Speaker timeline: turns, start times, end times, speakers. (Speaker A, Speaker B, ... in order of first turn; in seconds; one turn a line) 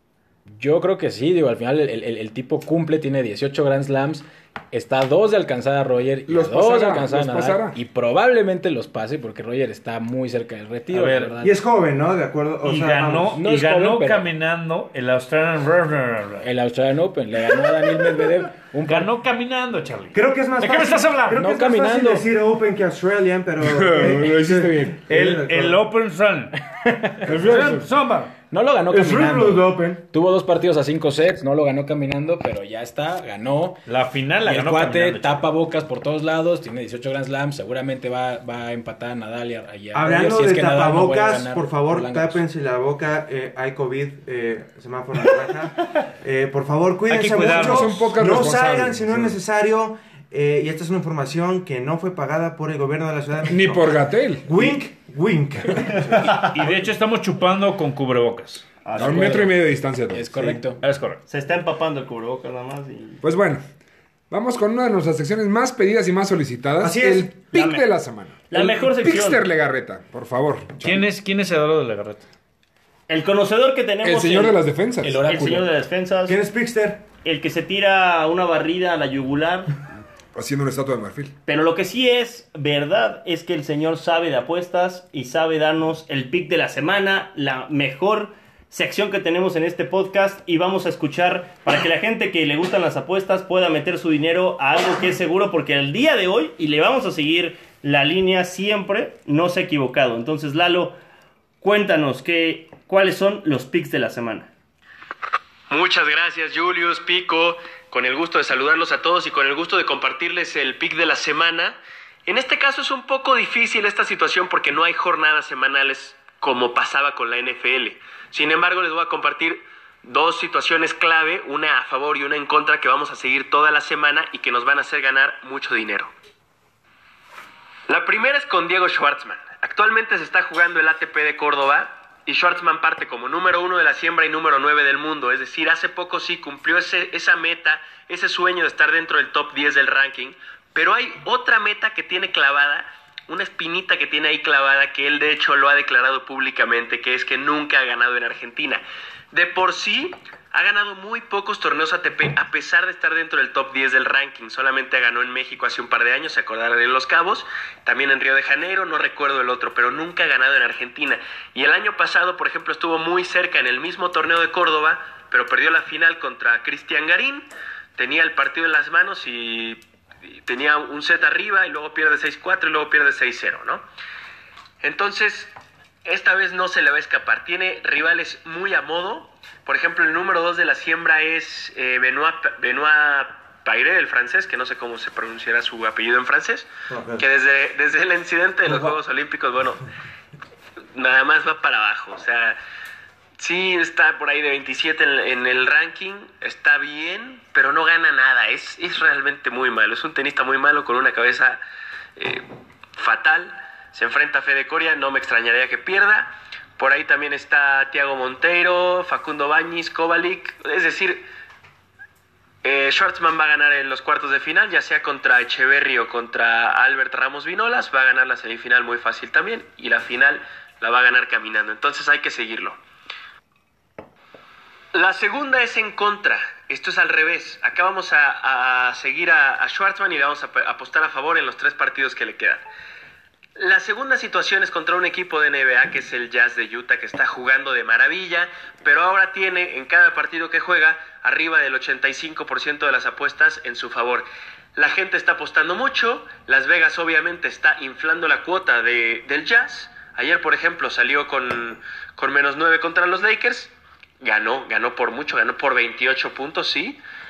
Speaker A: 0.5-11.6
Speaker B: 6.3-7.8
Speaker C: 10.9-11.3
Speaker D: 11.4-13.4
Speaker C: 12.6-16.5
Speaker A: 13.3-14.2
Speaker A: 16.4-19.1
Speaker C: 18.9-21.4
Speaker D: 20.1-25.8
Speaker A: 21.4-22.2
Speaker B: 23.6-24.9
Speaker A: 24.2-25.0
Speaker C: 25.1-26.6
Speaker A: 26.8-27.2
Speaker C: 27.1-28.3
Speaker B: 27.2-27.9
Speaker A: 28.5-33.8
Speaker D: 28.9-30.0
Speaker C: 33.9-35.4
Speaker A: 34.4-42.4
Speaker D: 39.9-53.9
Speaker C: 47.1-48.1
Speaker B: 47.4-49.4
Speaker B: 53.5-54.5
Speaker D: 54.4-56.8
Speaker C: 56.2-58.7
Speaker E: 58.8-59.4
Speaker A: 59.0-59.5
Speaker B: 59.0-60.6
Speaker A: 60.1-60.8
Speaker C: 60.8-61.2
Speaker E: 61.3-63.2
Speaker B: 63.2-63.6
Speaker B: 64.3-71.0
Speaker D: 66.8-67.3
Speaker E: 67.5-67.8
Speaker E: 68.5-69.4
Speaker C: 70.8-72.2
Speaker E: 73.1-74.6
Speaker B: 74.0-75.2
Speaker A: 75.0-75.7
Speaker E: 75.2-76.4
Speaker D: 76.2-77.0
Speaker E: 77.2-79.7
Speaker B: 80.3-81.3
Speaker E: 81.5-100.9
Speaker E: 101.6-104.5
Speaker F: 105.7-126.1
Speaker F: 127.9-169.8
Speaker F: 170.4-173.8
Speaker F: 174.8-175.5
Speaker F: 176.0-189.8
Speaker D: 186.9-187.2
Speaker F: 190.9-192.6
Speaker F: 193.4-201.6
Speaker F: 202.2-211.2
Speaker F: 212.6-222.8
Speaker F: 224.9-232.6
Speaker F: 233.6-257.0